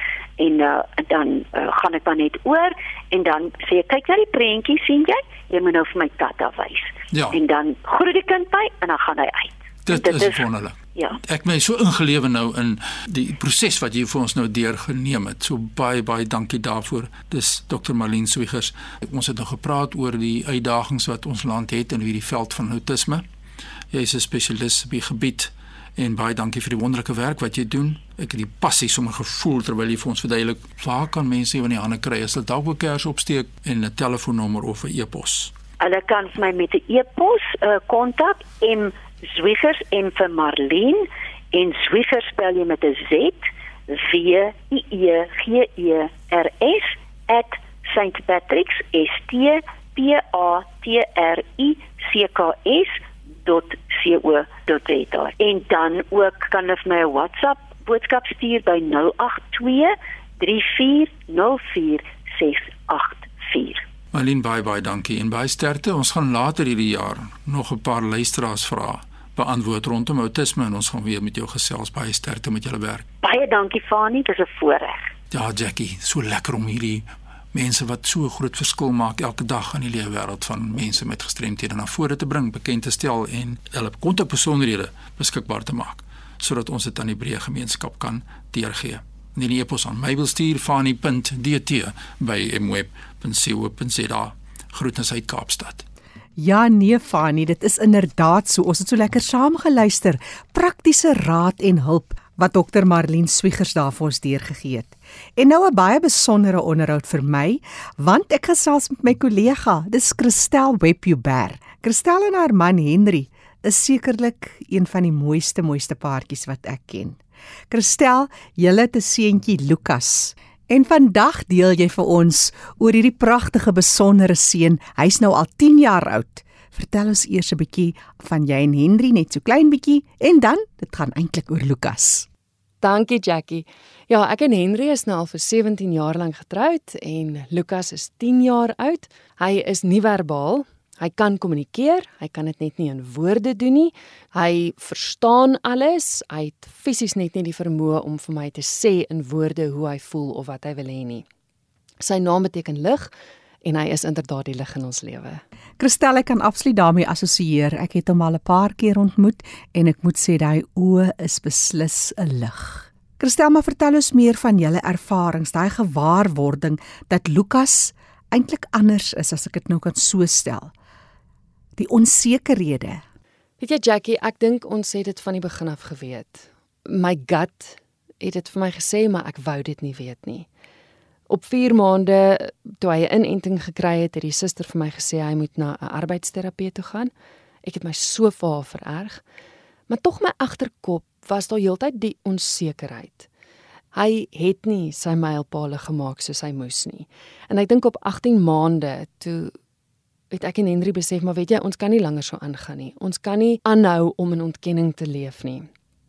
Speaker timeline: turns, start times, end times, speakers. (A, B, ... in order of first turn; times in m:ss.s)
0:00.4-0:10.4 A
0:07.1-0:07.4 B
0:09.8-0:23.2 B
0:23.9-0:35.5 B
0:35.8-1:03.8 A
1:04.1-1:13.0 B
1:13.2-1:15.1 A
1:15.3-1:35.8 B
1:36.4-1:57.2 C
1:57.7-2:12.3 C
2:12.8-2:31.2 D
2:32.0-2:33.1 D
2:33.6-2:35.4 D
2:35.8-2:50.7 C
2:51.8-2:53.0 C
2:53.6-3:00.5 D
3:01.3-3:07.1 D
3:07.6-3:09.2 D
3:09.9-3:13.3 D
3:13.9-3:19.5 D
3:20.3-3:25.7 D